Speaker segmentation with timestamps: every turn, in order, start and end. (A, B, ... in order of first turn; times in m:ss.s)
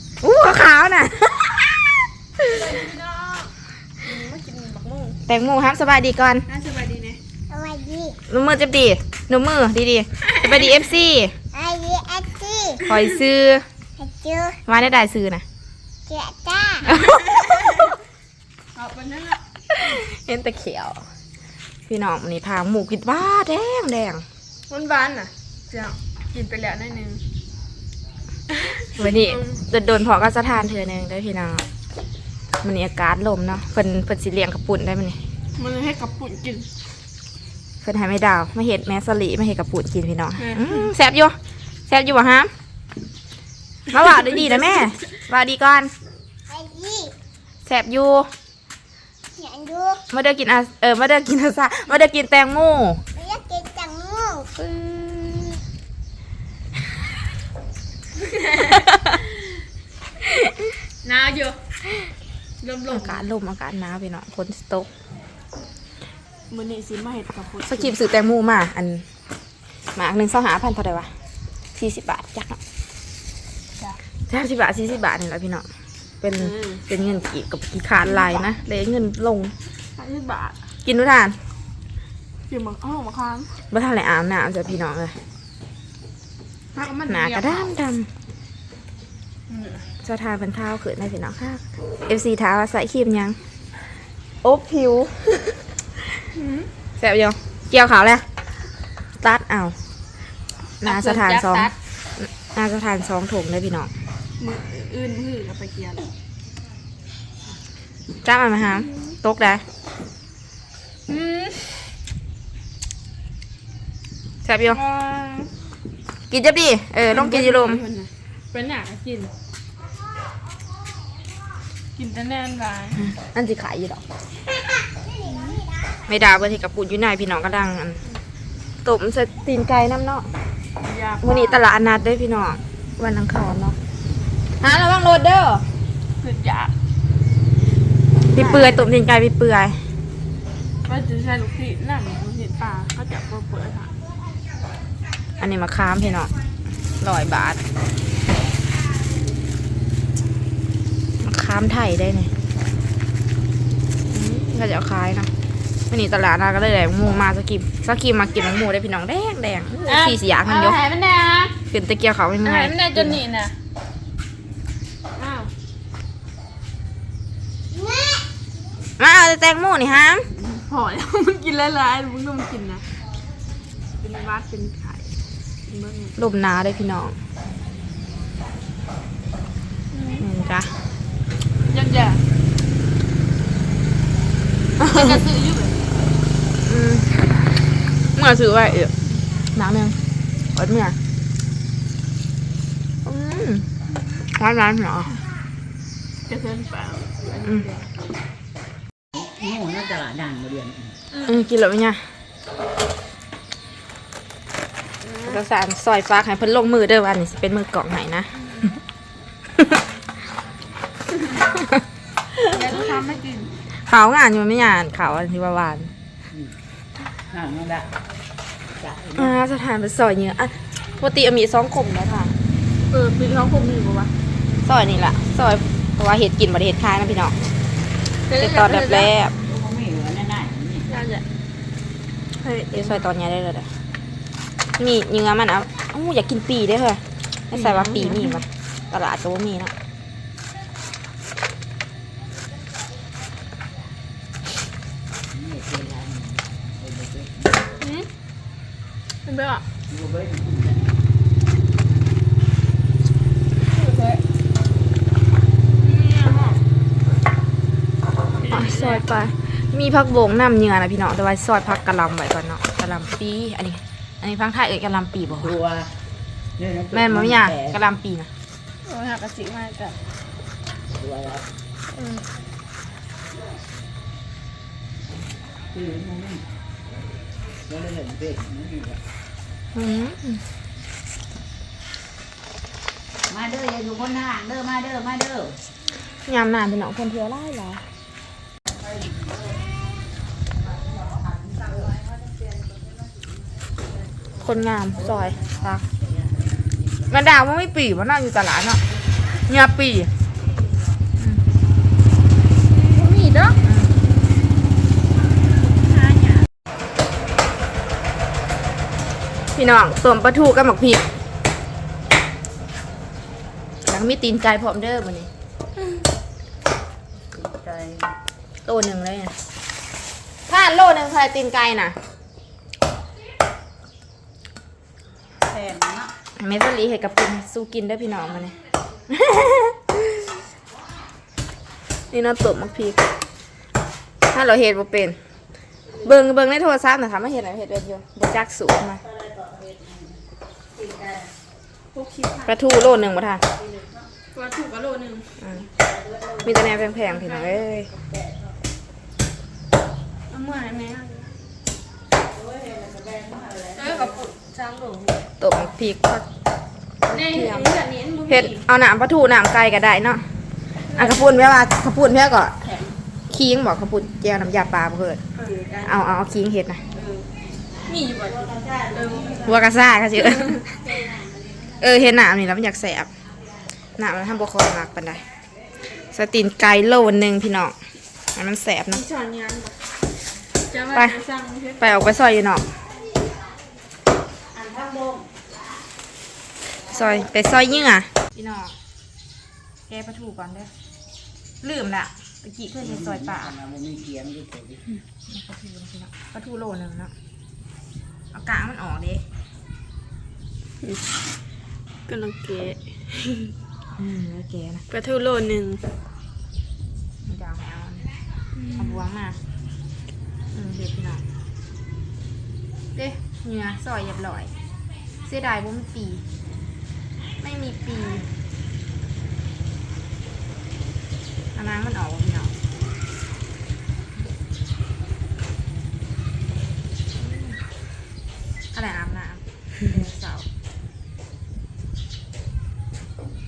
0:00.2-0:02.6 A
0:02.5-0:05.2 B
0:05.3-0:06.5 A
0:06.5-0:07.2 B
0:07.5-0:08.2 C
0:08.3-0:11.3 A
0:10.2-0:10.9 B
0:11.6-0:12.8 C
0:12.8-0:13.6 A
0:14.0-0:14.6 C
0:14.6-0:15.4 A
0:16.1-0:16.8 C
0:16.8-0:17.4 A
0:16.9-0:17.6 B
0:18.7-0:19.4 B
0:19.7-0:21.0 A
0:21.9-0:24.2 A
0:24.7-0:27.2 B
0:28.5-0:29.6 B
0:29.0-0:31.6 A
0:32.6-0:35.2 A
0:35.6-0:36.7 B
0:37.8-0:41.4 A
0:40.4-0:40.9 B
0:41.9-0:42.5 A
0:43.9-0:45.9 A
0:46.5-0:47.1 C
0:47.6-0:48.3 A
0:49.4-0:50.0 C
0:50.1-0:53.0 A
0:53.2-0:54.5 C
0:54.5-0:55.6 A
0:58.2-0:58.9 B
0:58.7-0:59.2 A
1:00.2-1:00.5 A
1:01.0-1:01.6 B
1:02.6-1:03.2 B
1:02.9-1:04.9 A
1:06.5-1:08.0 B
1:07.6-1:09.0 A
1:09.9-1:11.1 A
1:11.8-1:12.6 A
1:14.3-1:15.7 A
1:16.2-1:19.5 A
1:16.4-1:16.8 B
1:18.0-1:18.4 B
1:20.0-1:20.6 B
1:20.8-1:21.4 A
1:22.5-1:23.5 B
1:23.7-1:25.2 A
1:26.7-1:27.7 B
1:27.1-1:28.1 A
1:29.5-1:29.8 B
1:30.0-1:33.4 A
1:34.4-1:35.6 A
1:36.3-1:36.7 B
1:37.0-1:38.2 A
1:39.2-1:39.8 A
1:40.8-1:43.9 A
1:40.8-1:41.7 B
1:44.4-1:46.1 B
1:48.2-1:49.6 A
1:51.1-1:51.9 B
1:54.4-1:54.8 A
1:54.7-1:55.5 B
1:56.3-1:57.8 A
1:57.1-1:59.3 B
2:02.0-2:03.1 B
2:03.0-2:04.0 A
2:05.2-2:05.6 B
2:06.0-2:08.0 A
2:08.8-2:10.3 A
2:10.8-2:11.6 B
2:11.2-2:13.8 A
2:14.6-2:15.6 A
2:16.2-2:16.7 B
2:18.3-2:18.9 B
2:18.3-2:19.8 A
2:20.8-2:23.9 B
2:25.4-2:26.3 A
2:27.0-2:27.6 A
2:31.2-2:32.3 A
2:34.1-2:35.3 A
2:35.9-2:40.8 A
2:39.9-2:41.6 B
2:41.7-2:43.2 A
2:42.4-2:43.5 B
2:45.2-2:45.5 B
2:49.0-2:50.3 A
2:50.3-2:52.8 B
2:54.0-2:55.1 B
2:55.7-2:56.2 B
2:56.2-2:57.2 A
2:59.9-3:00.3 B
3:00.2-3:00.7 A
3:01.6-3:02.2 B
3:04.8-3:05.2 A
3:04.8-3:05.8 B
3:06.6-3:07.2 A
3:08.1-3:08.9 A
3:09.5-3:10.0 A
3:10.5-3:11.0 A
3:13.0-3:13.7 A
3:14.3-3:15.2 A
3:16.3-3:17.9 B
3:19.1-3:20.9 D
3:21.2-3:22.0 A
3:25.0-3:25.4 B
3:25.2-3:28.5 A
3:29.5-3:29.8 A
3:31.2-3:31.4 B
3:31.4-3:31.8 A
3:32.5-3:33.6 B
3:33.8-3:35.9 A
3:37.3-3:37.9 D
3:38.8-3:39.3 D
3:39.2-3:42.3 A
3:42.9-3:44.1 B
3:44.6-3:47.3 A
3:48.3-3:49.1 B
3:48.4-3:49.4 A
3:49.4-3:50.8 D
3:50.9-3:51.2 B
3:52.4-3:53.0 B
3:52.7-3:53.7 A
3:54.8-3:59.7 A
3:57.5-3:58.4 B
4:05.3-4:07.7 D
4:07.8-4:08.1 B
4:09.2-4:09.6 B
4:09.9-4:10.9 D
4:13.7-4:14.2 B
4:15.8-4:16.6 B
4:18.4-4:19.0 B
4:18.5-4:25.6 A
4:25.5-4:25.9 D
4:26.6-4:27.8 D
4:26.9-4:28.3 A
4:28.8-4:30.0 B
4:31.0-4:31.4 D
4:31.9-4:32.2 B
4:35.7-4:36.4 D
4:37.7-4:39.0 D
4:39.7-4:40.4 A
4:43.3-4:45.6 D
4:46.2-4:47.8 A
4:48.9-4:49.5 D
4:51.0-4:51.9 D
4:54.4-4:55.8 A
4:56.0-4:56.7 D
4:57.1-4:58.8 A
4:59.5-5:00.1 A
5:02.8-5:03.6 B
5:03.6-5:03.9 A
5:06.0-5:06.4 B
5:09.5-5:11.1 A
5:13.8-5:15.3 A
5:17.3-5:18.1 D
5:18.6-5:19.3 A
5:20.5-5:22.0 A
5:25.5-5:26.1 D
5:26.4-5:28.6 A
5:29.1-5:30.3 A
5:32.1-5:33.1 A
5:34.3-5:35.2 A
5:36.0-5:39.0 A
5:39.1-5:40.2 D
5:40.8-5:41.3 D
5:41.9-5:42.7 B
5:42.4-5:43.4 A
5:43.6-5:44.0 D
5:44.3-5:45.3 B
5:45.4-5:45.7 A
5:45.9-5:46.5 D
5:46.4-5:47.9 A
5:47.0-5:47.6 B
5:50.3-5:51.3 B
5:52.3-5:54.2 D
5:53.8-5:55.2 B
5:55.4-5:56.2 A
5:57.1-5:57.7 A
5:57.1-5:58.6 B
5:58.3-6:00.2 A
6:00.9-6:01.6 B
6:00.9-6:02.6 A
6:02.6-6:02.9 B
6:03.3-6:05.2 A
6:05.3-6:06.2 B
6:05.8-6:06.8 A
6:06.9-6:07.3 B
6:07.9-6:09.6 B
6:08.5-6:09.5 D
6:09.4-6:10.9 A
6:10.2-6:10.6 B
6:11.0-6:11.7 D
6:11.8-6:13.1 A
6:14.0-6:15.2 A
6:16.1-6:17.8 A
6:18.4-6:19.0 A
6:18.9-6:19.8 B
6:20.7-6:22.1 B
6:20.9-6:21.2 A
6:21.8-6:22.6 A
6:24.5-6:25.3 D
6:26.9-6:28.8 A
6:29.9-6:30.7 A
6:31.6-6:33.6 A
6:32.9-6:34.8 D
6:35.3-6:37.1 A
6:38.3-6:39.2 A
6:42.1-6:43.5 B
6:44.0-6:44.8 A
6:44.9-6:45.8 B
6:47.2-6:48.0 A
6:48.6-6:49.0 B
6:48.8-6:49.4 A
6:50.5-6:51.2 A
6:53.0-6:54.5 A
6:55.2-6:56.2 A
6:57.4-6:58.2 A
7:01.5-7:02.5 A
7:07.2-7:07.6 A
7:08.7-7:10.4 A